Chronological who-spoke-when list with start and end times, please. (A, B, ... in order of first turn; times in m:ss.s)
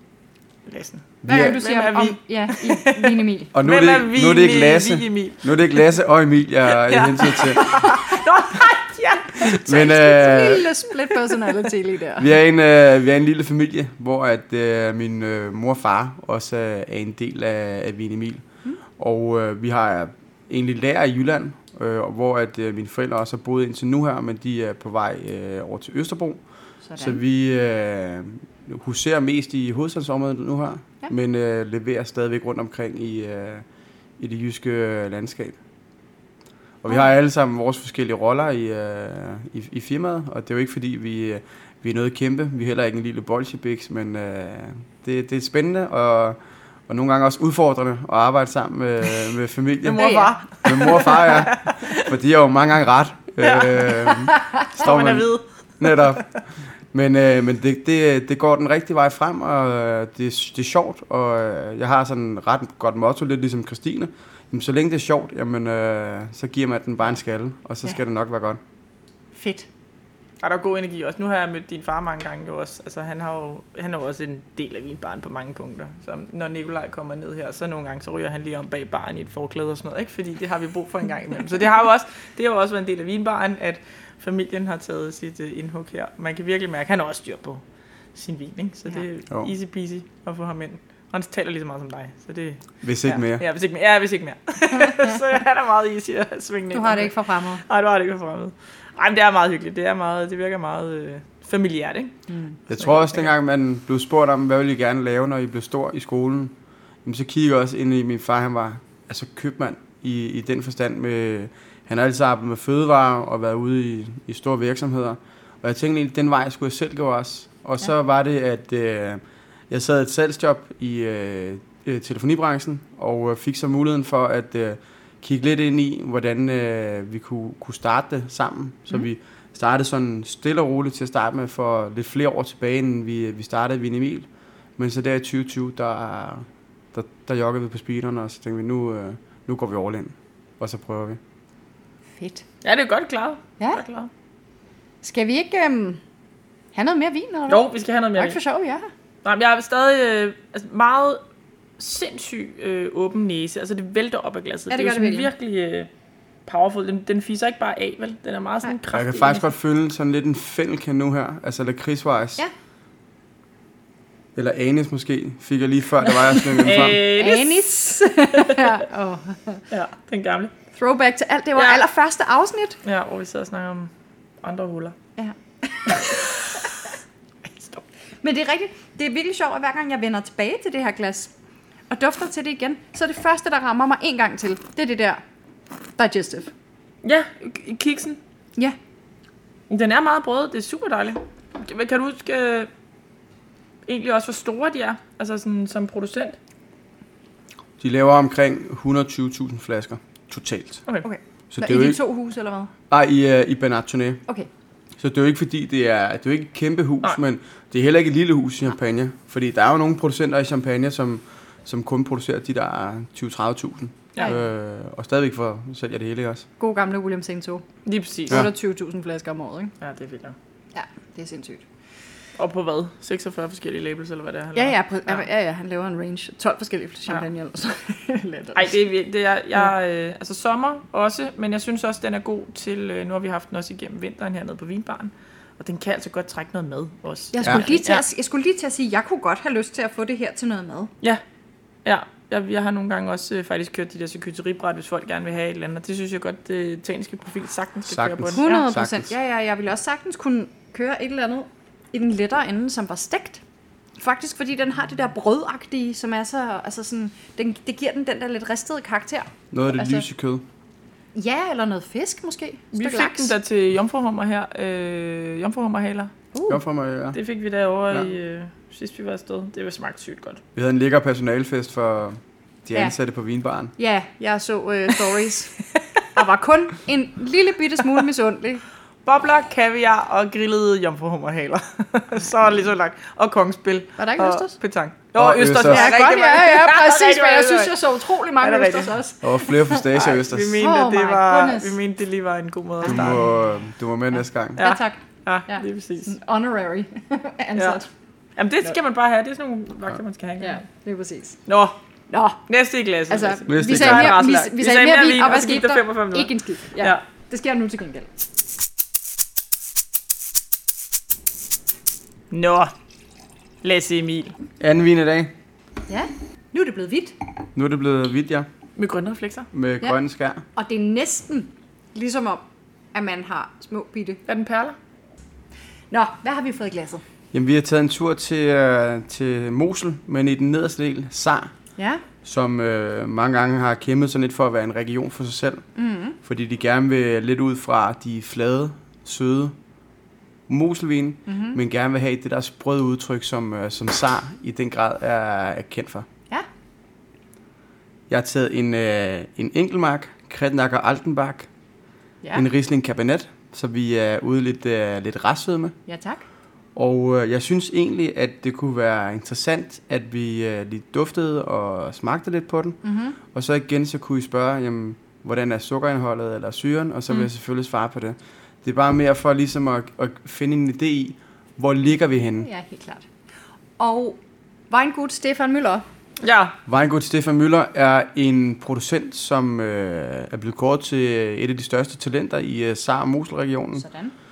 0:00.7-0:05.8 A
0:01.2-0:01.6 B
0:01.3-0:03.5 C
0:03.5-0:07.8 B
0:06.7-0:09.6 A
0:07.6-0:08.2 C
0:09.4-0:10.7 B
0:09.4-0:12.3 C
0:11.2-0:11.5 A
0:12.2-0:18.4 B
0:19.0-0:26.4 B
0:26.9-0:27.2 C
0:27.0-0:33.6 B
0:34.2-0:35.6 B
0:36.8-0:56.3 B
0:49.8-0:52.1 A
0:49.9-0:50.9 C
0:53.4-0:56.2 A
0:54.4-0:54.6 C
0:56.9-1:08.6 B
1:09.3-1:09.7 C
1:10.4-1:27.6 A
1:28.2-1:42.2 A
1:32.8-1:33.4 B
1:36.7-1:37.6 C
1:42.3-1:42.6 C
1:42.7-1:46.5 B
1:42.7-1:43.3 A
1:47.0-2:21.2 B
2:22.2-2:22.4 C
2:22.6-2:24.1 A
2:25.0-2:26.0 C
2:26.7-2:28.9 C
2:27.5-2:28.4 A
2:29.2-2:31.2 A
2:31.8-2:35.9 A
2:34.7-2:35.3 C
2:36.5-2:39.4 A
2:38.9-2:42.4 B
2:44.4-2:47.1 B
2:46.2-2:47.7 A
2:46.9-2:49.6 C
2:48.4-2:48.8 A
2:49.7-2:50.5 A
2:50.7-2:52.8 C
2:52.8-2:53.9 A
2:54.4-2:55.0 A
2:55.2-2:56.7 C
2:55.9-2:56.6 A
2:58.2-3:01.3 C
3:01.9-3:05.2 C
3:06.0-3:06.5 C
3:07.0-3:08.2 A
3:09.7-3:12.7 A
3:13.9-3:16.4 A
3:17.8-3:20.8 B
3:21.0-3:22.7 C
3:21.5-3:22.0 B
3:22.9-3:24.2 B
3:25.0-3:36.5 B
3:36.6-3:37.7 C
3:37.9-3:38.5 A
3:38.3-3:39.7 C
3:39.8-3:40.4 A
3:40.7-3:41.6 C
3:42.4-3:45.3 A
3:44.5-3:48.8 C
3:48.6-3:58.0 A
3:57.3-4:00.9 C
4:01.8-4:08.6 A
4:07.9-4:09.1 B
4:08.4-4:13.4 C
4:14.0-4:20.0 C
4:19.5-4:20.4 B
4:21.2-4:23.4 C
4:22.7-4:26.1 A
4:26.3-4:26.6 C
4:26.5-4:27.2 B
4:27.1-4:30.4 A
4:30.6-4:33.7 B
4:33.8-4:38.6 C
4:39.1-4:49.0 A
4:44.0-4:44.6 C
4:45.2-4:45.9 B
4:45.5-4:49.9 C
4:49.2-4:50.6 B
4:49.9-4:53.2 A
4:50.6-4:51.8 C
4:52.8-4:53.3 C
4:52.8-4:54.6 B
4:54.6-4:57.9 C
4:54.6-4:56.1 A
4:58.4-5:00.6 A
5:00.4-5:01.4 C
5:01.5-5:01.8 A
5:02.1-5:02.4 C
5:02.5-5:07.0 A
5:03.1-5:08.1 C
5:03.5-5:04.2 B
5:12.3-5:12.7 A
5:13.6-5:14.4 A
5:14.6-5:15.3 B
5:15.9-5:17.2 C
5:17.6-5:18.5 B
5:18.8-5:19.5 A
5:19.5-5:20.4 B
5:20.6-5:22.4 C
5:22.9-5:24.2 C
5:24.3-5:24.8 A
5:25.9-5:27.0 C
5:27.3-5:31.5 B
5:31.8-5:32.0 C
5:32.2-5:35.6 B
5:35.8-5:36.2 C
5:36.2-5:39.6 B
5:40.5-5:46.1 B
5:41.3-5:41.6 C
5:48.1-5:51.5 B
5:52.3-5:55.7 B
5:55.9-5:56.2 C
5:56.8-6:02.8 B
6:02.8-6:03.2 C
6:03.3-6:12.5 B
6:12.2-6:13.1 C
6:13.8-6:14.2 C
6:14.7-6:15.8 C
6:16.2-6:16.6 A
6:16.7-6:23.8 B
6:23.8-6:24.1 C